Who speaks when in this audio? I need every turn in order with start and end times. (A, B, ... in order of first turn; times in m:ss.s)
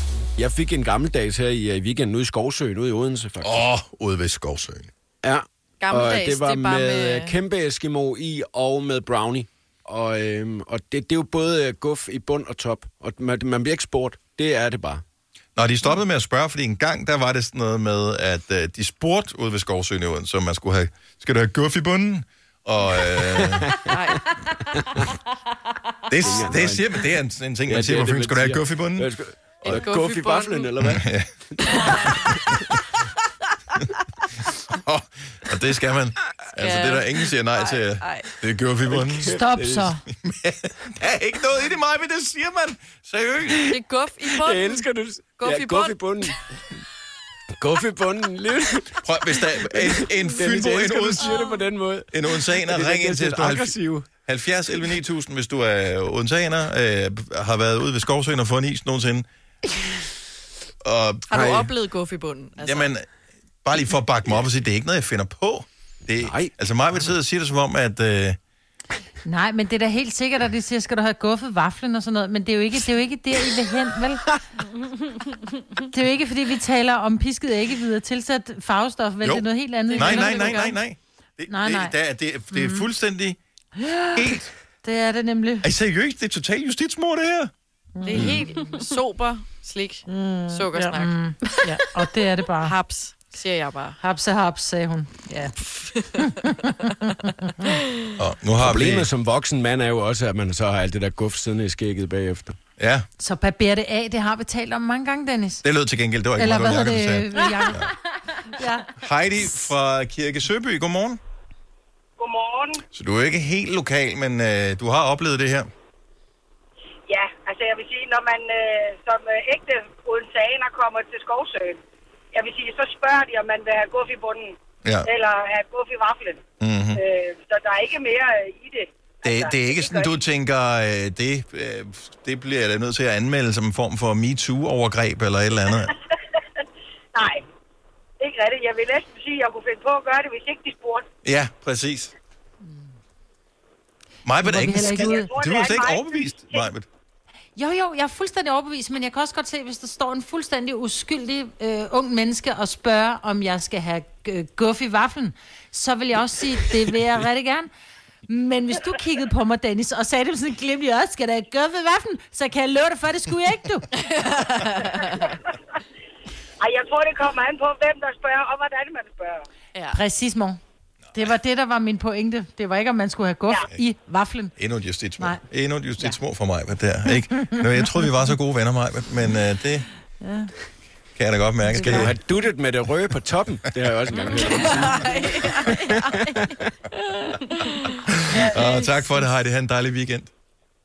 0:00.4-0:03.6 A
0:03.4-0:04.9 B
0:05.2-0:15.0 A
0:05.8-0:07.4 C
0:15.6-0:23.8 B
0:23.3-0:23.9 A
0:23.8-0:25.1 C
0:26.1-0:29.1 B
0:26.2-0:27.0 A
0:27.7-0:32.4 A
0:29.6-0:30.7 C
0:30.8-0:31.3 B
0:31.6-0:32.4 C
0:34.7-0:39.4 B
0:36.6-0:38.3 C
0:38.8-0:40.0 A
0:39.2-0:40.0 D
0:40.2-0:43.8 B
0:43.5-0:46.4 A
0:43.7-0:44.9 C
0:45.4-0:46.0 C
0:47.6-0:54.1 A
0:49.0-0:51.4 B
0:51.3-0:51.6 C
0:52.1-0:59.3 B
1:00.8-1:01.3 B
1:01.3-1:02.9 C
1:01.3-1:01.7 A
1:02.6-1:03.1 B
1:03.6-1:08.4 B
1:06.2-1:06.5 A
1:09.2-1:14.3 D
1:14.8-1:15.4 C
1:15.8-1:20.8 D
1:19.2-1:23.4 B
1:19.8-1:20.8 C
1:21.5-1:22.0 D
1:22.5-1:22.9 D
1:23.8-1:25.7 D
1:24.1-1:24.5 B
1:25.6-1:27.5 B
1:28.0-1:28.8 D
1:28.0-1:31.6 C
1:28.1-1:28.4 B
1:30.1-1:32.8 D
1:32.6-1:34.0 C
1:34.0-1:37.5 D
1:35.8-1:36.1 C
1:38.2-1:39.1 B
1:38.6-1:42.6 A
1:42.8-1:43.1 B
1:43.2-1:45.6 D
1:45.6-1:47.9 B
1:46.4-1:48.9 D
1:49.0-1:51.2 B
1:52.2-1:52.8 E
1:52.9-1:55.7 B
1:57.1-2:01.8 E
2:02.3-2:06.4 E
2:04.8-2:05.1 B
2:06.6-2:07.0 B
2:07.0-2:10.1 E
2:09.2-2:15.9 B
2:17.1-2:17.4 E
2:18.2-2:21.0 E
2:21.2-2:22.1 B
2:24.2-2:26.9 B
2:24.4-2:25.3 D
2:24.9-2:26.7 E
2:27.6-2:37.7 D
2:38.3-2:43.9 D
2:44.0-2:45.4 C
2:46.6-2:49.5 E
2:49.8-2:50.0 C
2:49.9-2:50.6 D
2:51.1-2:54.6 D
2:54.6-2:59.9 B
3:00.2-3:00.5 D
3:01.2-3:02.1 B
3:01.7-3:02.1 D
3:01.8-3:06.7 A
3:04.1-3:06.5 C
3:07.3-3:08.0 C
3:08.1-3:10.3 B